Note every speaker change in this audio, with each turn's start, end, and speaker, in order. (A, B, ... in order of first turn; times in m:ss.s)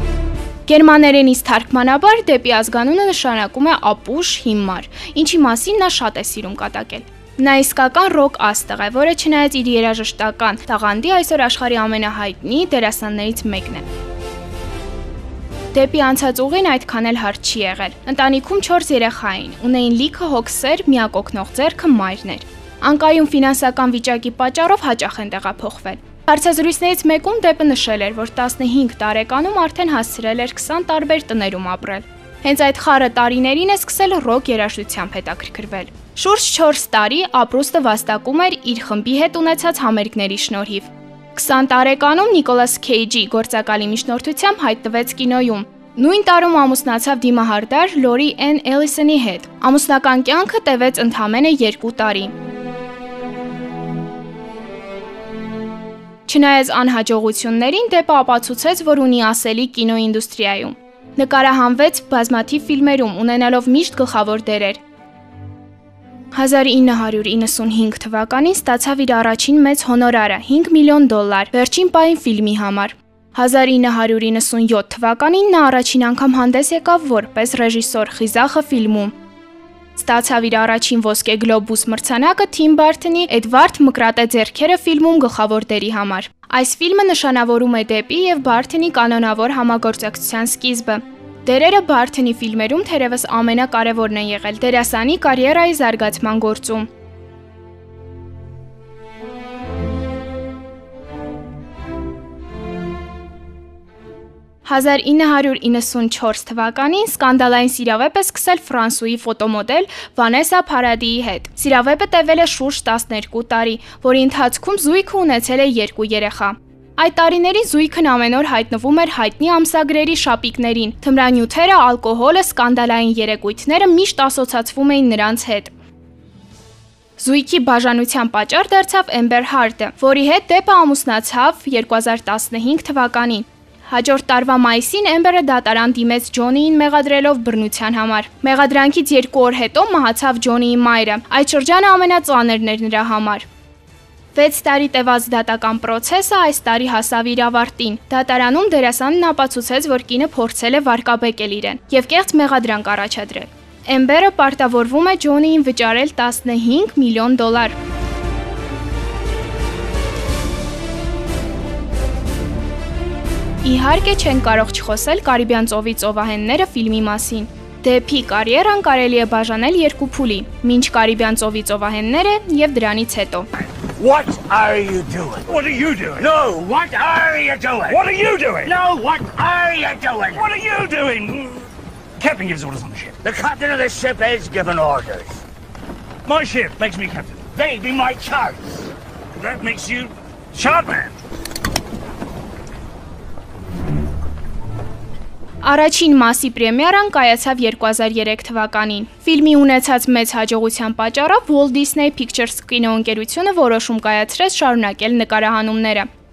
0:00.7-0:13.8 A
0:15.7-0:52.3 A
0:56.3-1:04.8 A
1:06.3-1:19.2 A
1:20.0-1:36.9 A
1:44.6-2:05.7 A
2:07.2-2:23.5 A
2:24.3-2:37.8 A
2:43.6-2:53.5 A
2:54.0-2:55.6 B
2:55.5-2:56.3 C
2:56.2-2:58.0 B
2:57.9-2:58.8 C
2:58.6-3:00.5 B
3:00.3-3:01.7 C
3:02.2-3:03.2 C
3:03.2-3:05.4 B
3:06.2-3:07.5 C
3:07.5-3:08.8 B
3:09.4-3:11.1 C
3:15.6-3:26.1 A